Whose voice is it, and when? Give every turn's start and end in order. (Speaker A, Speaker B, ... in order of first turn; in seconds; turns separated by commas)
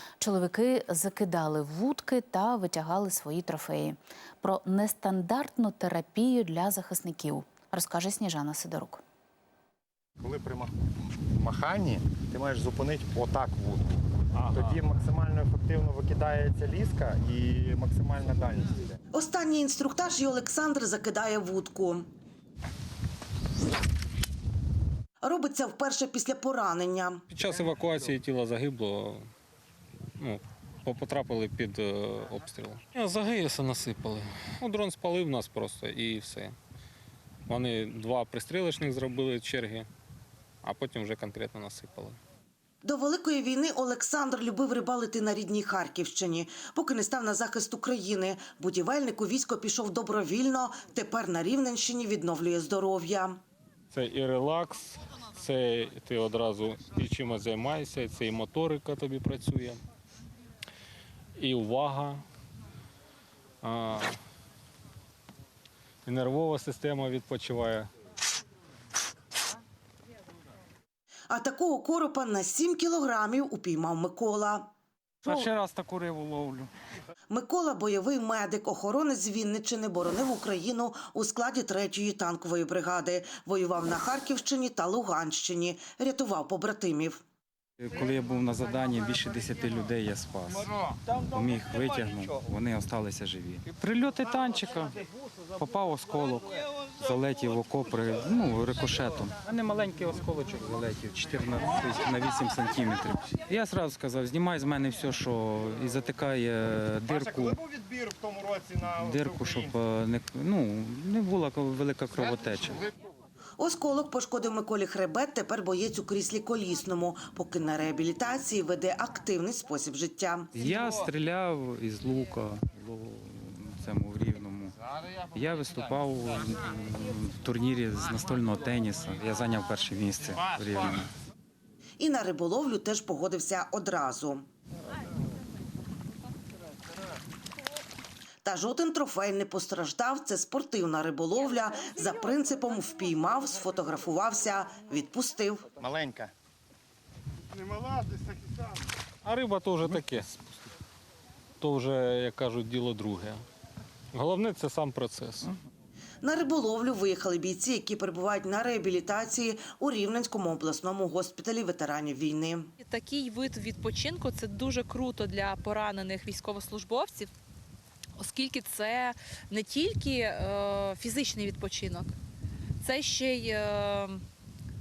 Speaker A: 0.2-9.0, Speaker B: 10.2-19.0, Speaker C: 14.3-14.8, Speaker D: 19.1-22.1, Speaker D: 25.2-27.2, Speaker C: 27.3-29.3, Speaker C: 30.2-36.6, Speaker C: 37.5-39.9, Speaker C: 40.6-42.2, Speaker D: 42.8-53.4, Speaker C: 53.9-59.8, Speaker C: 61.4-62.2, Speaker C: 63.6-64.2, Speaker C: 66.0-67.9, Speaker D: 71.3-74.7, Speaker E: 75.2-76.7, Speaker D: 77.3-87.2, Speaker E: 87.8-90.7, Speaker E: 91.2-95.0, Speaker E: 95.5-107.6, Speaker B: 107.1-109.8, Speaker E: 109.0-112.9, Speaker D: 113.6-120.5, Speaker E: 120.5-131.1, Speaker D: 132.0-134.5, Speaker D: 138.4-145.7, Speaker B: 145.8-146.3, Speaker C: 149.2-150.4, Speaker C: 151.6-153.4, Speaker C: 154.1-155.5, Speaker D: 156.2-162.7, Speaker F: 162.8-167.3, Speaker F: 168.2-172.1, Speaker F: 172.8-174.2